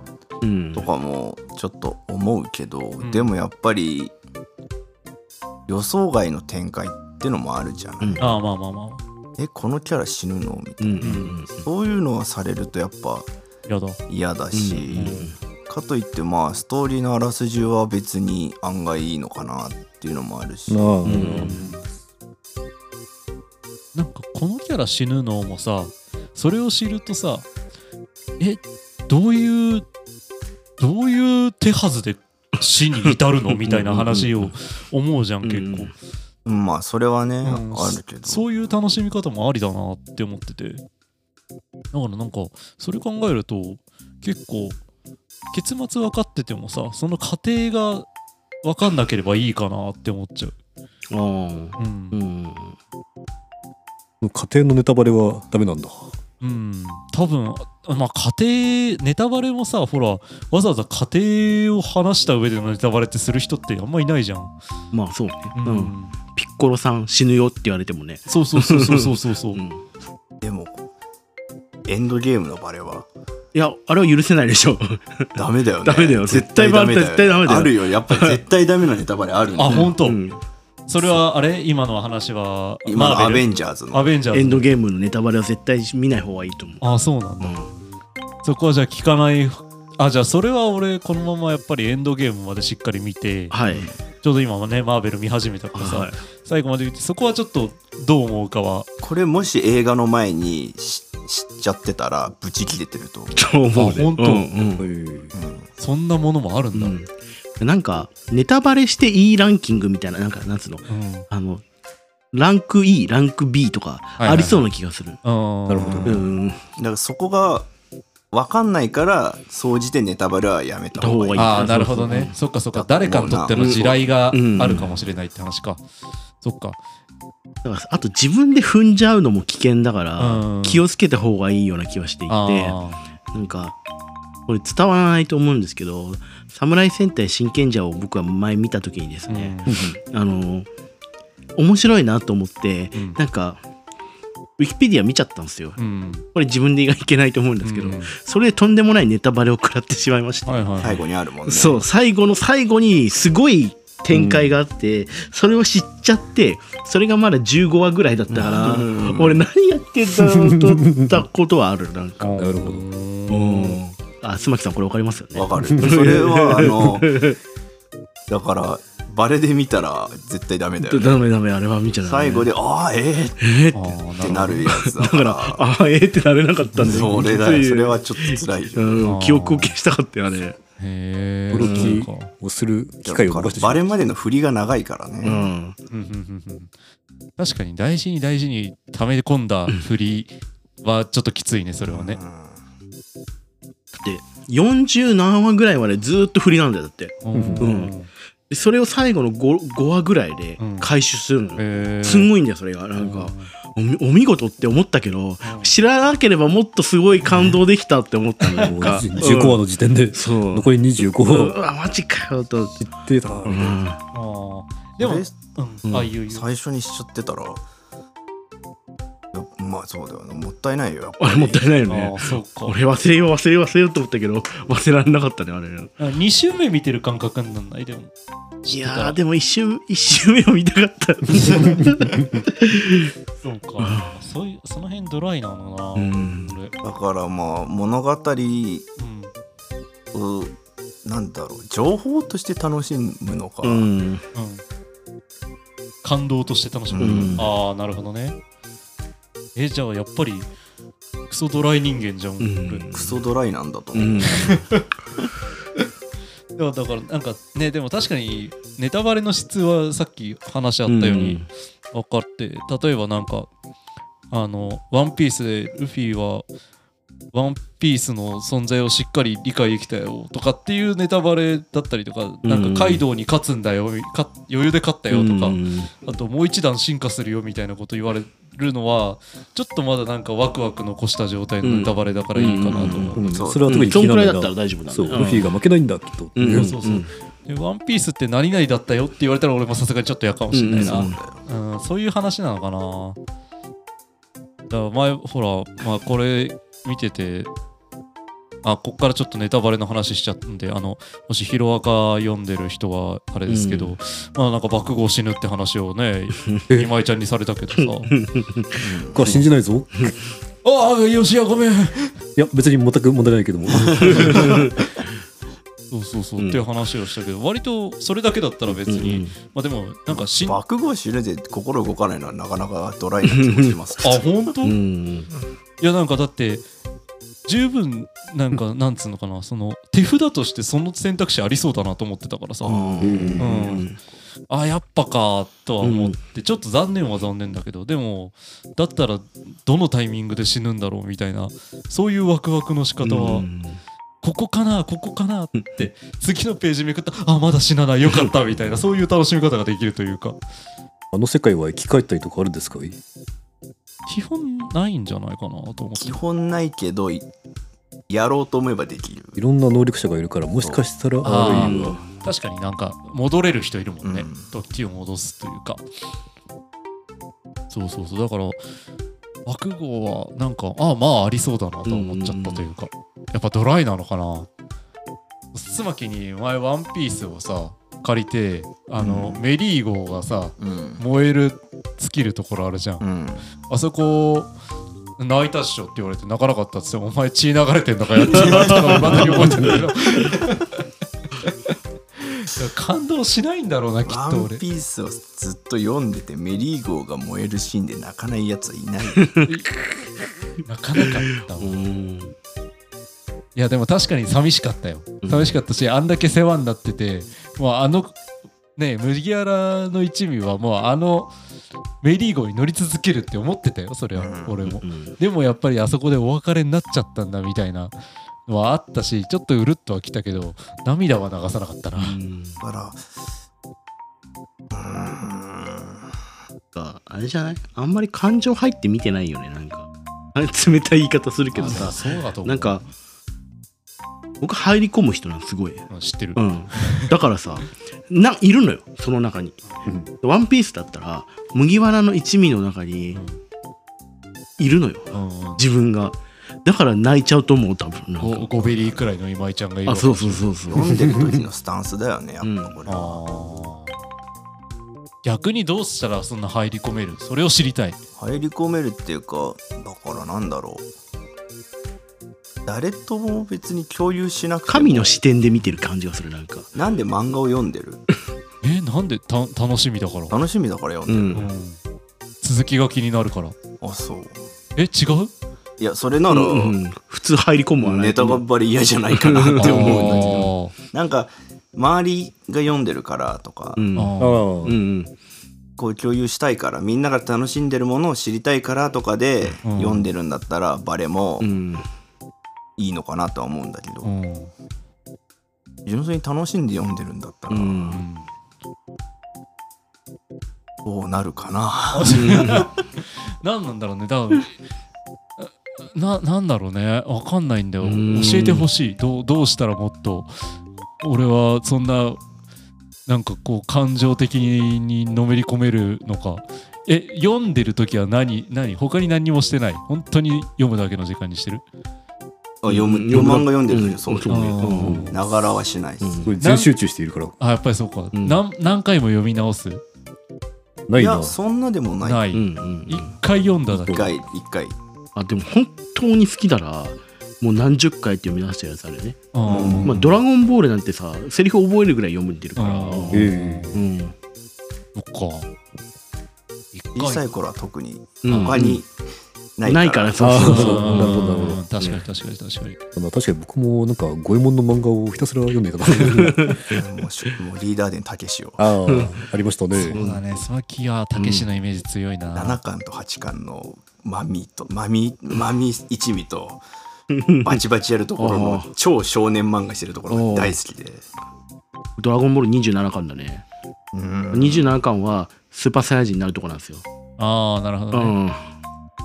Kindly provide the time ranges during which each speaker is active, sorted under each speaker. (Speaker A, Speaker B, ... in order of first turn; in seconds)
Speaker A: 0.4-0.9, 8.0-8.3, 10.8-11.7, 14.5-15.3, 21.1-21.7, 33.0-34.5, 35.4-35.9, 51.1-52.8, 64.9-69.8, 73.5-78.4, 79.7-80.4, 84.3-86.8, 87.4-87.7, 93.5-93.9, 95.8-96.2, 103.3-104.9, 106.7-111.6, 112.3-115.2, 116.0-116.6, 120.9-122.3, 123.6-125.0, 127.6-132.8, 133.3-133.8, 134.5-140.7, 141.6-143.6, 144.6-145.8, 146.3-162.4, 163.3-167.4, 170.8-172.5, 173.4-173.9, 174.6-180.6, 181.6-182.0, 185.2-185.8, 193.9-197.9, 198.5-209.6, 210.1-210.7, 211.2-212.9, 213.4-214.0, 221.2-225.9, 228.7-233.1, 233.8-234.2, 235.9-236.6, 243.6-244.2, 247.0-247.5, 252.4-253.2, 253.9-254.6, 260.9-261.5, 272.4-273.0, 275.1-275.9, 281.6-285.5, 286.4-287.1, 290.5-291.2, 303.5-303.9, 306.4-306.7, 307.8-309.3, 314.0-314.8, 316.4-316.6, 318.9-319.3, 323.2-323.8, 324.6-325.3, 332.6-334.0, 335.8-336.2, 343.0-343.8, 345.6-345.8, 361.3-362.1, 371.9-372.7, 399.2-399.5, 401.1-402.3, 405.2-405.6, 414.7-415.2, 421.9-422.6, 426.7-432.9, 434.4-439.6, 440.2-443.2, 444.6-448.5, 449.9-451.3, 452.4-452.8, 464.7-466.7, 471.1-471.4, 476.3-478.4, 479.1-480.5, 483.8-485.1, 491.4-491.8, 497.5-498.0, 502.1-502.7, 507.8-508.7, 522.7-525.1, 526.0-526.3, 528.1-528.4, 532.3-533.1, 535.1-539.2, 539.8-544.1, 548.2-548.8, 549.6-552.0, 555.9-556.8, 558.9-559.1, 559.8-560.2, 561.2-561.5, 567.1-567.6, 568.2-568.7, 570.1-570.6, 572.0-573.4, 574.3-576.9, 577.9-578.5
Speaker B: 0.8-4.1, 5.7-8.3, 9.4-13.3, 14.1-21.5, 36.4-38.5, 70.4-70.8, 71.9-73.1, 75.4-79.9, 82.9-84.1, 93.7-94.0, 99.0-103.5, 105.3-105.7, 116.8-117.7, 118.3-121.8, 122.7-124.1, 150.8-151.9, 158.3-159.4, 165.3-167.2, 168.3-171.2, 172.0-173.4, 174.2-175.6, 176.8-179.1, 183.1-185.4, 191.8-192.6, 215.0-215.4, 216.3-217.6, 219.3-221.7, 236.8-238.9, 240.1-243.9, 246.9-247.5, 252.9-254.5, 283.1-284.0, 290.8-291.4, 308.8-309.4, 313.9-314.2, 320.1-324.2, 333.0-333.4, 356.0-357.3, 358.1-359.4, 360.6-360.9, 364.0-364.5, 379.0-379.4, 380.6-381.0, 383.0-383.5, 388.3-389.6, 394.1-399.4, 414.1-414.6, 422.6-423.0, 424.7-426.1, 448.6-449.0, 450.7-453.2, 458.2-460.9, 462.7-465.2, 466.7-468.0, 470.3-471.5, 473.8-474.4, 475.8-476.8, 477.8-483.8, 485.8-491.5, 492.8-494.1, 495.9-498.0, 500.8-502.7, 522.6-526.3, 531.0-532.3, 533.8-534.8, 539.5-540.0, 546.9-548.9, 549.6-550.6, 556.7-558.9, 562.4-566.6, 567.4-571.0, 573.9-574.8
Speaker C: 3.0-3.3, 8.2-9.0, 11.0-11.4, 13.7-14.0, 14.9-15.3, 23.9-27.5, 28.4-29.9, 30.8-35.9, 37.4-40.8, 41.9-44.8, 45.5-48.1, 48.6-50.6, 51.8-52.2, 56.4-64.5, 65.5-66.2, 68.3-69.6, 79.5-80.2, 80.9-84.7, 86.8-87.6, 88.4-93.6, 94.2-98.9, 103.8-104.5, 105.8-107.0, 110.9-111.2, 114.2-114.7, 115.2-116.2, 121.4-125.8, 126.4-126.8, 130.2-130.8, 132.3-133.0, 139.3-139.8, 145.8-146.2, 147.6-148.1, 150.4-151.0, 162.2-163.8, 173.7-174.7, 179.0-179.8, 180.8-182.3, 185.9-186.7, 187.4-192.2, 197.2-198.1, 200.6-200.9, 201.6-202.3, 202.9-203.5, 205.4-205.7, 208.5-209.0, 214.1-216.4, 221.9-222.8, 226.0-228.1, 228.6-229.2, 231.5-231.9, 233.4-236.8, 239.0-239.3, 244.3-244.6, 246.0-248.4, 249.6-250.5, 251.3-252.8, 254.3-254.9, 256.6-263.5, 264.3-266.4, 267.3-283.3, 286.5-293.2, 294.7-297.5, 298.6-308.2, 310.6-312.2, 315.9-320.6, 324.0-324.8, 325.8-326.6, 327.4-333.9, 334.5-343.5, 344.2-350.4, 354.1-356.2, 361.2-365.8, 367.7-368.6, 369.4-374.5, 375.5-383.0, 383.7-384.5, 385.2-390.8, 391.4-394.6, 399.4-399.7, 400.6-401.8, 403.6-408.2, 408.8-411.3, 412.0-417.9, 418.5-422.2, 431.6-432.8, 435.9-437.1, 443.1-443.4, 445.1-445.6, 448.2-450.5, 452.9-453.9, 455.2-458.0, 468.6-470.4, 471.3-471.8, 472.4-473.6, 474.8-475.3, 479.6-480.8, 483.9-484.4, 489.6-490.1, 494.0-494.5, 497.9-498.3, 501.9-504.5, 505.4-510.3, 511.0-512.2, 513.1-521.6, 524.3-525.2, 526.4-526.7, 527.4-529.8, 532.0-534.1, 539.3-540.1, 542.6-543.8, 544.9-545.5, 546.7-547.2, 548.3-548.6, 550.4-552.8, 559.7-562.6, 577.2-578.1
Speaker D: 20.7-21.9, 54.2-56.1, 104.8-105.3, 115.7-116.2, 139.7-139.9, 154.1-154.6, 160.2-161.2, 162.4-162.8, 165.6-166.0, 181.5-183.9, 197.3-197.7, 208.6-211.6, 212.8-213.8, 283.1-286.8, 309.1-310.1, 312.4-314.7, 333.0-333.5, 351.1-353.0, 359.4-362.0, 484.2-484.8, 524.8-525.1, 526.2-527.4, 530.9-531.4, 533.8-534.1, 539.5-540.1, 543.1-543.8, 550.2-551.6, 552.9-556.6, 558.6-560.0